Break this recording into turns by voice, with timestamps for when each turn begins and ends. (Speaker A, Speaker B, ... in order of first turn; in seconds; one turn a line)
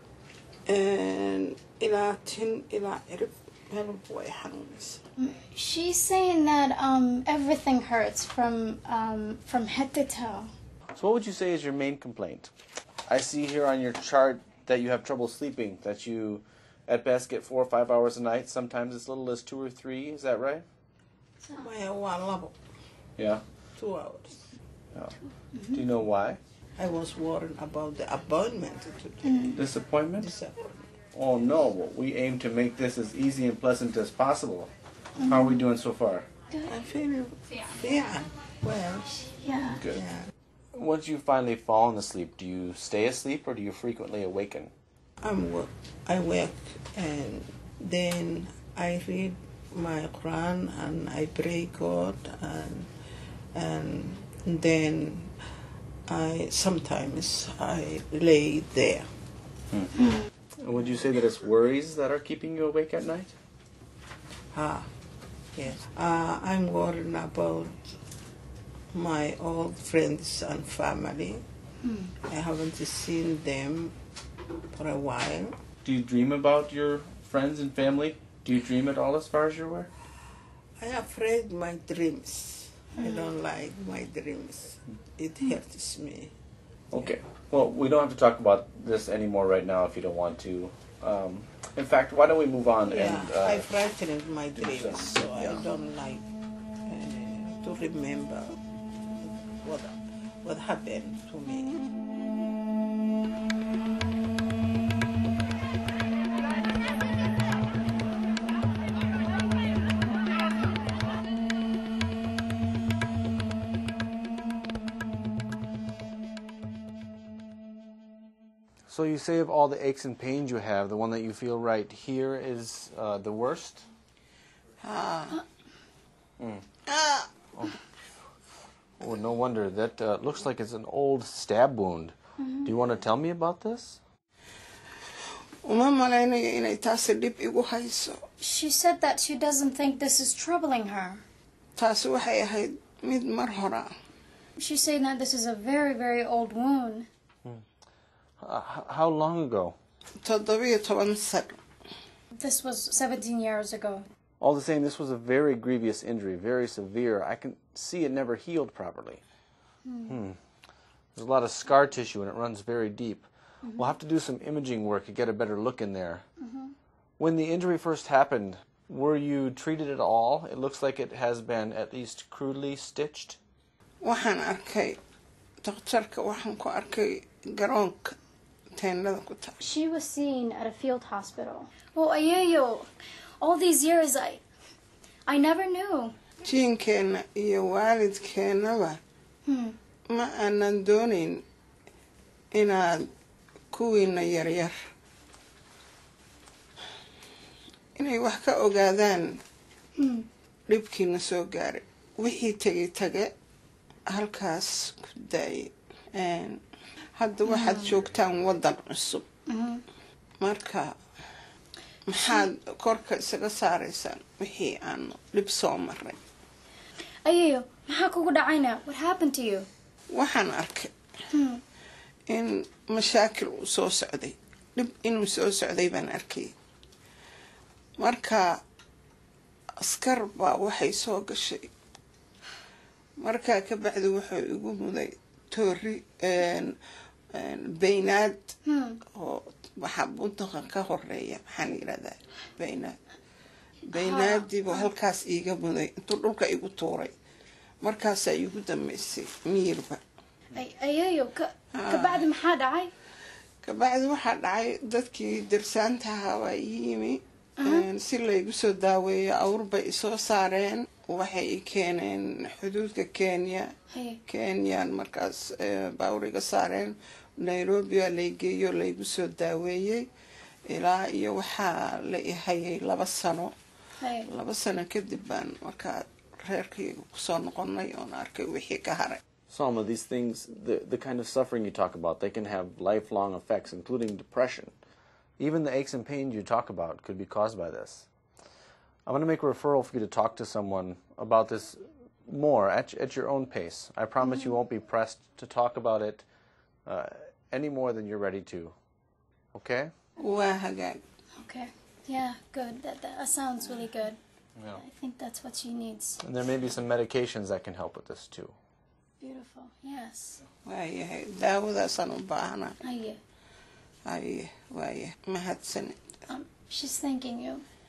Speaker A: 0.7-5.0
Speaker B: 5.2-10.5
Speaker C: 10.9-12.5
Speaker C: 13.1-20.6
Speaker A: 21.5-22.5
Speaker C: 23.2-23.4
Speaker A: 23.8-24.4
Speaker B: 25.5-25.8
Speaker C: 25.7-26.4
Speaker A: 26.8-29.6
Speaker B: 29.2-29.6
Speaker C: 29.5-30.3
Speaker A: 30.2-30.6
Speaker C: 31.1-36.2
Speaker B: 35.2-35.6
Speaker A: 36.6-39.3
Speaker B: 39.4-39.8
Speaker C: 39.7-40.0
Speaker A: 39.9-40.2
Speaker C: 40.7-44.7
Speaker A: 45.2-52.9
Speaker A: 53.5-55.3
Speaker A: 56.1-59.0
Speaker C: 59.7-63.3
Speaker A: 64.5-64.9
Speaker A: 65.5-67.9
Speaker A: 68.9-71.4
Speaker B: 71.8-72.1
Speaker A: 72.2-73.9
Speaker A: 74.7-75.5
Speaker C: 75.8-79.9
Speaker A: 80.8-86.3
Speaker B: 83.0-83.2
Speaker C: 86.9-93.7
Speaker A: 92.9-96.2
Speaker C: 94.6-95.6
Speaker A: 96.8-98.6
Speaker A: 99.2-101.8
Speaker C: 118.9-123.8
Speaker A: 124.8-125.4
Speaker C: 126.4-126.7
Speaker A: 126.8-127.3
Speaker C: 129.0-134.0
Speaker B: 132.4-132.7
Speaker A: 135.6-138.2
Speaker B: 138.4-141.2
Speaker A: 141.8-143.9
Speaker B: 144.6-147.1
Speaker C: 148.4-149.8
Speaker A: 150.2-151.6
Speaker B: 152.3-154.1
Speaker C: 154.4-159.2
Speaker B: 159.8-160.2
Speaker C: 160.1-160.4
Speaker C: 161.1-166.2
Speaker B: 163.6-163.9
Speaker B: 166.4-166.7
Speaker C: 167.2-173.4
Speaker A: 174.0-175.0
Speaker A: 175.6-178.2
Speaker A: 178.8-179.6
Speaker B: 179.6-182.9
Speaker B: 183.4-184.4
Speaker B: 185.3-186.1
Speaker A: 186.4-189.0
Speaker B: 189.4-189.8
Speaker A: 190.1-191.4
Speaker A: 192.5-193.1
Speaker A: 193.7-194.7
Speaker A: 197.9-199.4
Speaker B: 200.0-200.3
Speaker A: 200.7-203.3
Speaker A: 204.1-206.6
Speaker A: 207.1-209.2
Speaker B: 207.4-207.9
Speaker B: 209.5-209.8
Speaker A: 210.4-210.9
Speaker A: 212.1-216.2
Speaker B: 217.2-219.7
Speaker A: 220.1-220.9
Speaker B: 221.3-221.6
Speaker A: 222.3-226.5
Speaker A: 228.0-228.6
Speaker A: 229.8-231.7
Speaker A: 233.2-236.8
Speaker A: 237.3-238.5
Speaker B: 238.6-239.0
Speaker A: 239.1-243.0
Speaker B: 243.9-244.9
Speaker A: 243.9-247.1
Speaker A: 247.8-250.0
Speaker B: 250.5-252.9
Speaker A: 251.7-252.2
Speaker A: 253.6-263.7
Speaker B: 257.6-257.9
Speaker B: 263.9-264.2
Speaker A: 264.2-270.1
Speaker A: 270.6-273.5
Speaker B: 274.0-274.3
Speaker A: 274.2-279.2
Speaker C: 279.5-284.7
Speaker C: 285.4-288.1
Speaker C: 289.1-296.2
Speaker B: 294.2-294.5
Speaker C: 296.9-298.7
Speaker C: 299.5-299.9
Speaker A: 300.2-301.0
Speaker B: 301.4-304.2
Speaker B: 304.8-306.2
Speaker C: 306.2-308.6
Speaker B: 309.2-310.4
Speaker A: 310.6-312.8
Speaker B: 312.8-313.2
Speaker A: 314.0-316.0
Speaker B: 316.3-317.6